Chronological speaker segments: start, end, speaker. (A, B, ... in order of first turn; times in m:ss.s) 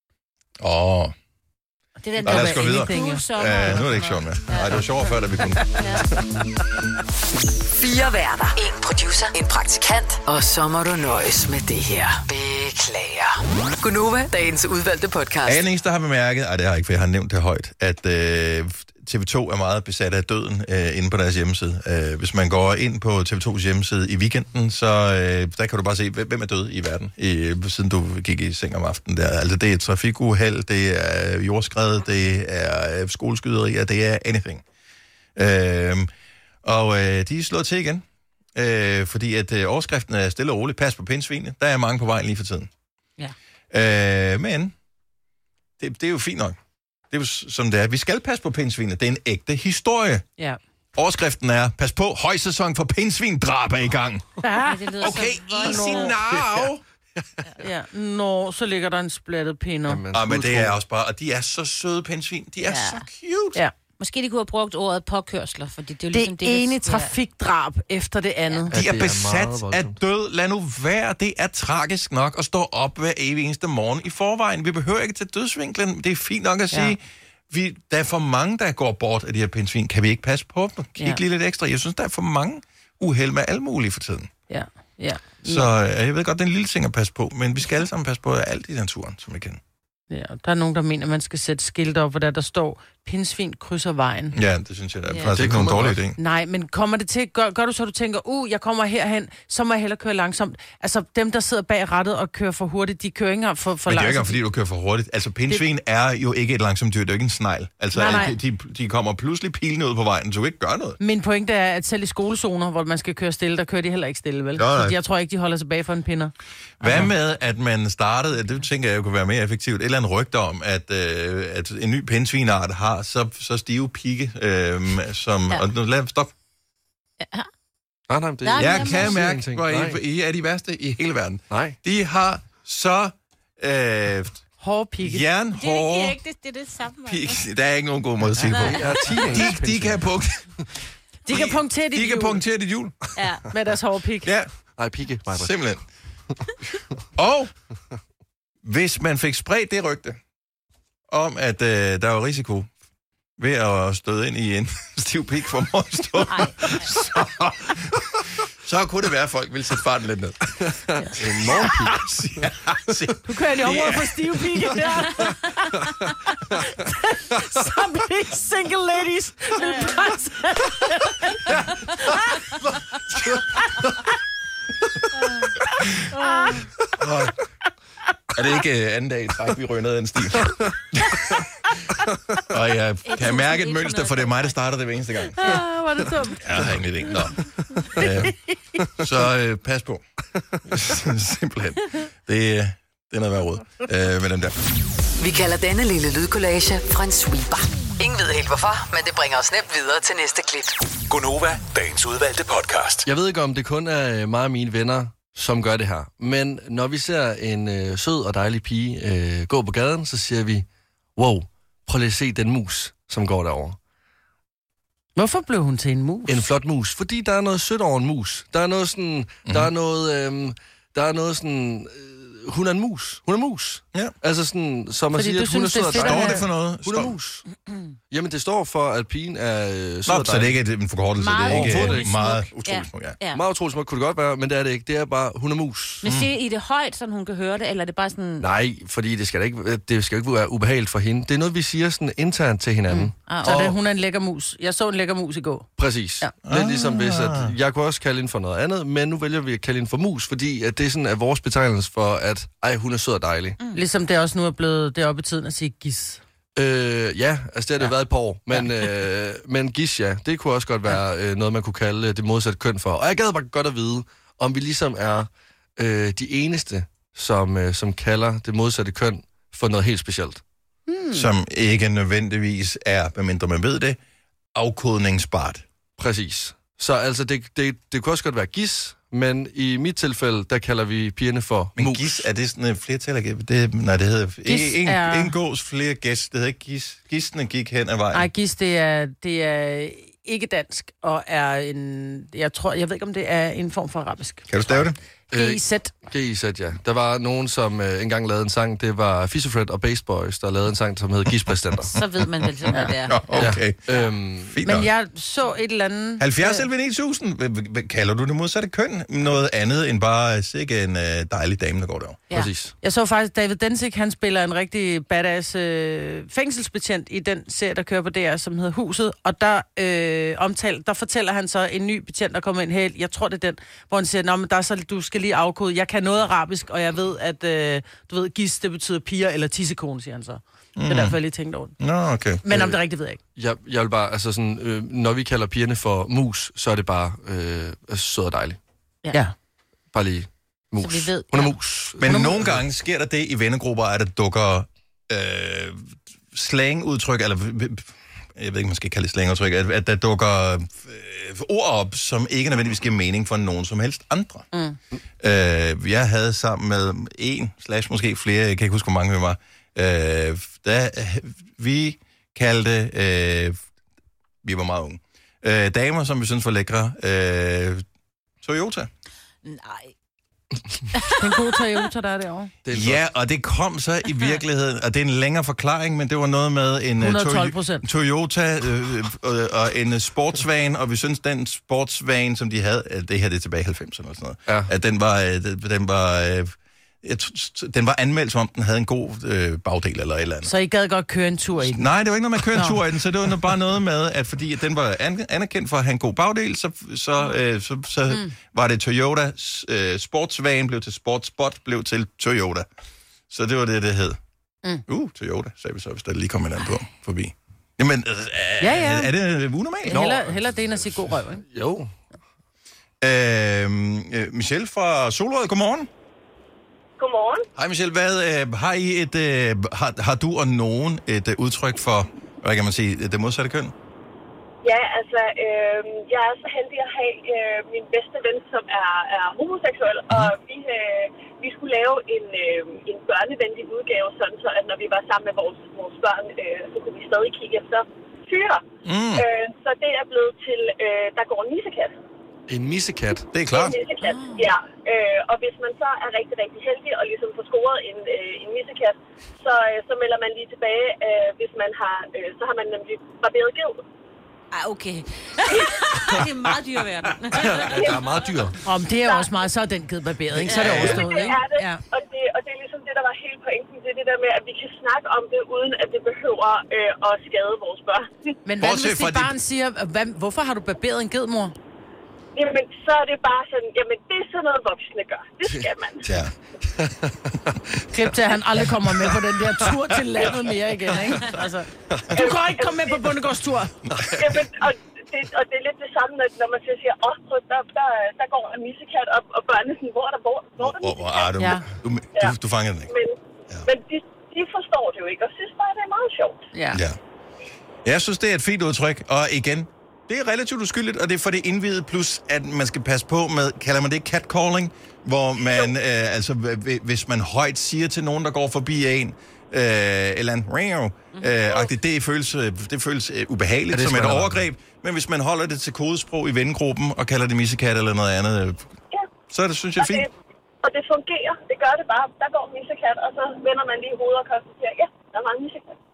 0:00.6-0:01.1 A
0:02.0-0:04.8 B
0:02.1-0:03.2 C
0:02.2-0:05.8 A
0:05.8-0:06.1 B
0:07.7-0:15.6 D
0:15.4-0:34.6 A
0:35.4-0:36.1 A
0:36.6-0:42.7 A
0:43.7-0:44.7 A
0:45.8-0:46.6 A
0:47.1-0:50.2 A
0:51.0-0:54.2 A
0:54.4-0:56.1 C
0:54.6-0:56.2 B
0:55.0-0:56.8 A
0:56.3-0:56.7 E
0:57.6-1:00.0 C
0:59.9-1:00.7 E
1:00.1-1:03.6 A
1:02.6-1:03.0 B
1:04.0-1:07.1 B
1:06.1-1:08.7 C
1:08.7-1:09.9 E
1:08.7-1:24.3 A
1:24.5-1:25.7 C
1:25.4-1:29.6 A
1:30.1-1:34.4 C
1:34.3-1:36.2 A
1:35.3-1:36.0 E
1:36.2-1:44.4 C
1:43.8-1:51.0 A
1:47.9-1:48.4 C
1:51.0-1:57.1 C
1:54.6-1:54.9 A
1:56.8-2:06.3 A
2:07.2-2:07.5 B
2:08.1-2:10.0 E
2:08.4-2:09.2 B
2:08.6-2:14.4 A
2:11.5-2:11.8 E
2:14.6-2:15.2 C
2:15.0-2:16.2 A
2:15.6-2:17.4 B
2:17.1-2:20.5 A
2:18.5-2:20.0 E
2:18.6-2:18.8 B
2:21.2-2:22.4 C
2:21.3-2:23.1 A
2:23.2-2:23.4 B
2:23.5-2:24.3 C
2:24.2-2:24.5 A
2:24.7-2:25.6 E
2:25.3-2:25.8 A
2:27.2-2:27.5 A
2:28.6-2:30.2 A
2:31.1-2:32.7 A
2:33.4-2:40.6 A
2:36.3-2:36.9 B
2:40.7-2:42.1 E
2:41.2-2:44.3 A
2:43.2-2:51.5 C
2:49.6-2:49.9 B
2:52.7-2:53.9 E
2:56.1-2:56.6 C
2:56.2-2:56.7 B
2:57.0-2:57.3 A
2:58.4-3:01.2 A
3:02.5-3:05.6 A
3:03.0-3:04.6 B
3:05.4-3:06.4 C
3:06.4-3:08.4 A
3:08.9-3:10.0 A
3:10.7-3:14.6 A
3:15.2-3:20.8 D
3:21.1-3:23.1 F
3:23.0-3:30.6 E
3:31.2-3:33.8 E
3:35.2-3:36.4 C
3:36.3-3:47.4 E
3:45.1-3:46.4 C
3:45.9-3:47.2 A
3:48.1-3:50.6 E
3:50.1-3:53.2 A
3:51.2-3:53.4 B
3:51.4-3:52.2 E
3:53.3-3:56.0 E
3:56.0-3:58.4 B
3:58.4-4:03.8 E
4:02.9-4:05.7 C
4:03.3-4:03.6 B
4:05.8-4:13.6 E
4:06.4-4:07.5 A
4:13.7-4:16.2 C
4:16.6-4:30.4 E
4:31.1-4:34.0 A
4:34.6-4:35.6 A
4:36.0-4:42.2 E
4:41.8-4:48.3 A
4:44.4-4:45.3 C
4:48.1-4:54.5 C
4:54.5-4:55.0 A
4:55.3-4:55.9 C
4:55.3-5:02.0 E
5:01.9-5:03.4 B
5:03.0-5:03.8 A
5:03.3-5:04.6 E
5:04.4-5:04.9 A
5:04.6-5:06.6 C
5:06.2-5:12.2 A
5:12.3-5:12.7 E
5:12.8-5:31.7 C
5:30.8-5:31.2 A
5:31.8-5:32.4 A
5:32.4-5:33.2 C
5:32.5-5:32.8 E
5:33.4-5:38.6 E
5:39.9-5:42.6 E
5:40.8-5:41.6 B
5:42.0-5:54.5 A
5:42.1-5:42.3 C
5:55.2-6:03.6 A
6:04.4-6:07.8 A
6:08.4-6:08.9 A
6:09.4-6:09.9 B
6:11.2-6:12.5 C
6:12.6-6:13.0 E
6:12.7-6:30.5 A
6:17.0-6:17.8 C
6:30.4-6:31.9 C
6:31.6-6:42.7 A
6:32.5-6:32.8 C
6:43.3-6:44.2 A
6:44.9-6:50.1 A
6:48.6-6:49.1 C
6:49.8-6:51.4 C
6:49.9-6:51.9 E
6:53.0-6:55.9 A
6:57.0-6:57.4 G
6:57.6-7:03.7 A
7:04.6-7:18.6 G
7:10.1-7:10.3 A
7:18.8-7:19.3 A
7:19.2-7:21.9 G
7:22.5-7:23.3 E
7:23.3-7:23.8 A
7:23.4-7:33.8 G
7:24.0-7:24.4 B
7:34.5-7:38.0 B
7:35.9-7:36.3 E
7:37.3-7:38.6 E
7:38.6-7:41.8 C
7:39.0-7:39.3 G
7:40.4-7:40.9 E
7:40.5-7:41.3 B
7:40.6-7:41.1 A
7:40.8-7:48.1 G
7:48.4-7:51.5 C
7:48.6-7:49.4 A
7:52.4-7:56.1 G
7:56.1-7:56.3 A
7:56.7-7:57.6 E
7:57.9-8:03.8 C
7:58.7-7:59.7 E
8:02.2-8:03.2 G
8:03.9-8:04.3 E
8:04.2-8:11.3 G
8:10.6-8:12.9 A
8:11.4-8:11.6 C
8:12.9-8:16.4 G
8:16.5-8:16.8 C
8:16.7-8:17.0 A
8:17.8-8:38.7 A
8:33.7-8:34.4 E
8:39.3-8:40.1 A
8:39.8-8:40.1 G
8:40.6-8:45.7 G